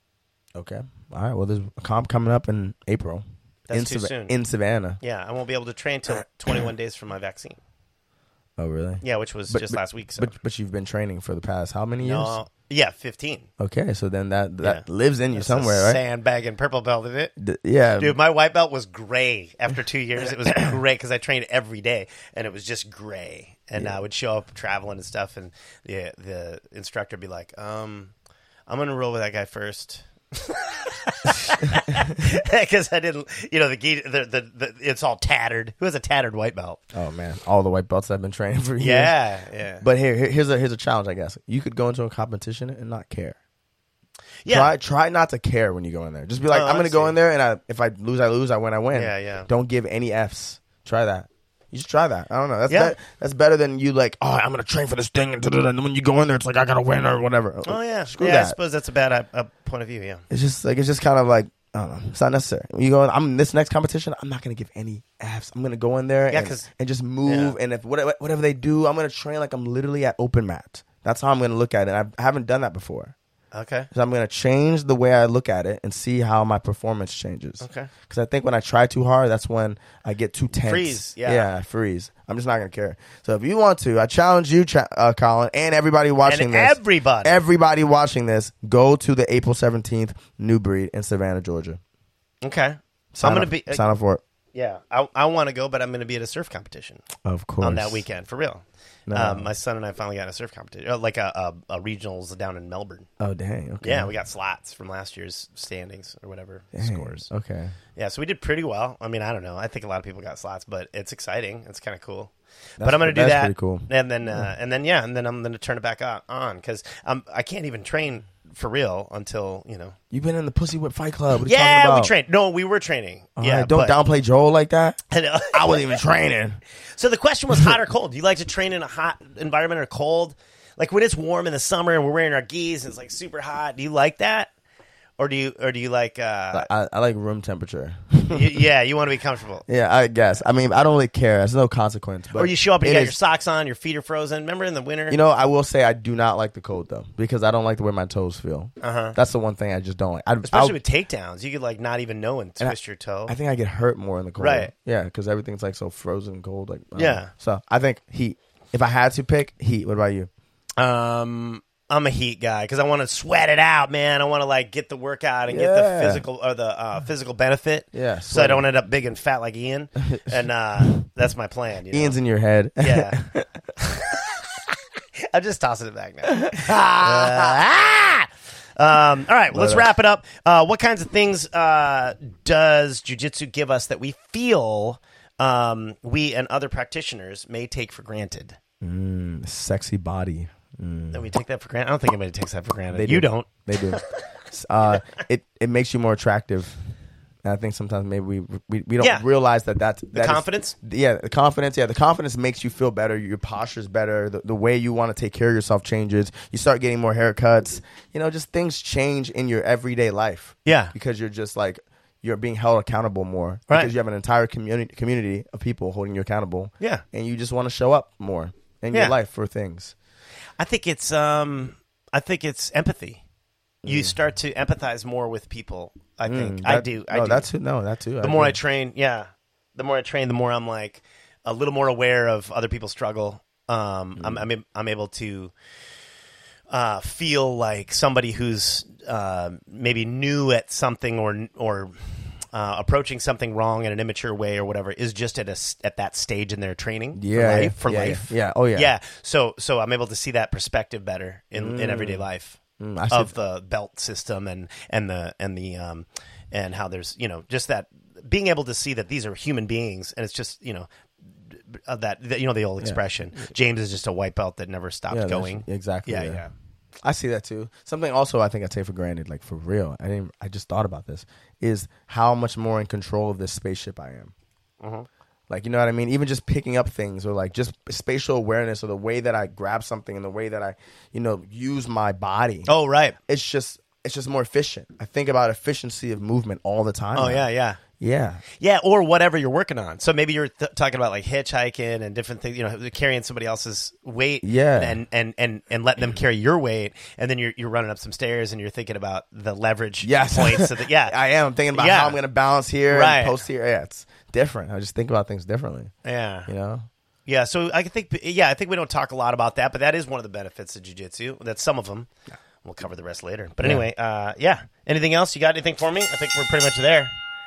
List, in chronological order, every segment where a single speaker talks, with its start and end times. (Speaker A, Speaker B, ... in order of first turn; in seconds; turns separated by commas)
Speaker A: 0.6-5.0, Speaker B: 3.7-4.4, Speaker B: 5.0-7.6, Speaker A: 8.6-12.4, Speaker B: 9.0-10.3, Speaker B: 12.0-13.5, Speaker A: 13.6-16.0, Speaker B: 14.6-17.3, Speaker A: 17.4-18.2, Speaker B: 18.0-28.1, Speaker A: 20.2-20.8, Speaker B: 28.7-36.8, Speaker A: 36.9-39.1, Speaker B: 38.8-39.8, Speaker A: 39.8-43.4, Speaker B: 44.5-44.7, Speaker A: 44.5-58.6, Speaker B: 46.5-47.2, Speaker B: 48.9-49.5, Speaker B: 52.7-53.0, Speaker B: 57.6-60.2, Speaker A: 60.3-73.1, Speaker B: 66.3-66.7, Speaker B: 67.2-67.5, Speaker B: 73.5-73.9, Speaker A: 73.9-91.8, Speaker B: 77.6-77.9, Speaker B: 80.7-81.5, Speaker B: 86.2-87.4, Speaker B: 92.4-93.8, Speaker A: 93.1-94.2, Speaker B: 94.5-97.1, Speaker A: 97.2-98.0, Speaker B: 97.6-103.1, Speaker A: 99.1-99.5, Speaker A: 103.2-104.1, Speaker B: 103.8-107.3, Speaker A: 106.7-107.8, Speaker B: 108.0-120.0, Speaker A: 112.8-114.5, Speaker A: 120.1-122.1, Speaker B: 121.5-124.0, Speaker A: 123.4-126.6, Speaker B: 125.1-126.0, Speaker B: 127.0-134.5, Speaker B: 135.2-136.7, Speaker A: 136.5-138.6, Speaker B: 138.3-139.7, Speaker A: 139.7-143.2, Speaker B: 142.3-145.2, Speaker A: 145.1-150.8, Speaker B: 148.8-149.2, Speaker B: 150.4-153.3, Speaker A: 153.3-160.3, Speaker B: 154.4-154.7, Speaker B: 156.9-157.3, Speaker B: 160.8-172.2, Speaker A: 165.5-166.2, Speaker A: 167.9-168.7, Speaker A: 171.9-174.1, Speaker B: 172.8-173.2, Speaker B: 173.8-188.6, Speaker A: 176.4-177.6, Speaker A: 179.5-179.9, Speaker A: 188.8-191.3, Speaker B: 191.1-194.0, Speaker A: 192.9-196.8, Speaker A: 197.4-219.9, Speaker B: 199.0-199.2, Speaker B: 200.1-200.8, Speaker B: 210.7-210.9, Speaker B: 218.9-219.2, Speaker B: 220.6-223.2, Speaker A: 223.8-224.2, Speaker B: 223.8-227.5, Speaker A: 226.3-228.6, Speaker B: 228.2-235.5, Speaker A: 234.2-234.5, Speaker B: 236.7-241.9, Speaker B: 242.5-252.6, Speaker A: 247.2-248.9, Speaker A: 251.5-252.3, Speaker A: 252.8-253.3, Speaker B: 253.1-260.9, Speaker B: 261.4-266.5, Speaker A: 265.1-266.4, Speaker A: 267.0-274.3, Speaker B: 274.8-275.1, Speaker A: 275.5-282.7, Speaker B: 282.7-283.2, Speaker A: 283.3-287.5, Speaker B: 287.1-287.8, Speaker A: 288.0-288.4, Speaker B: 288.6-301.2, Speaker A: 294.4-295.0, Speaker A: 300.0-305.9, Speaker B: 301.7-302.2, Speaker B: 302.9-303.4, Speaker B: 306.1-306.5, Speaker A: 306.5-306.9, Speaker B: 307.3-312.1, Speaker B: 312.6-317.1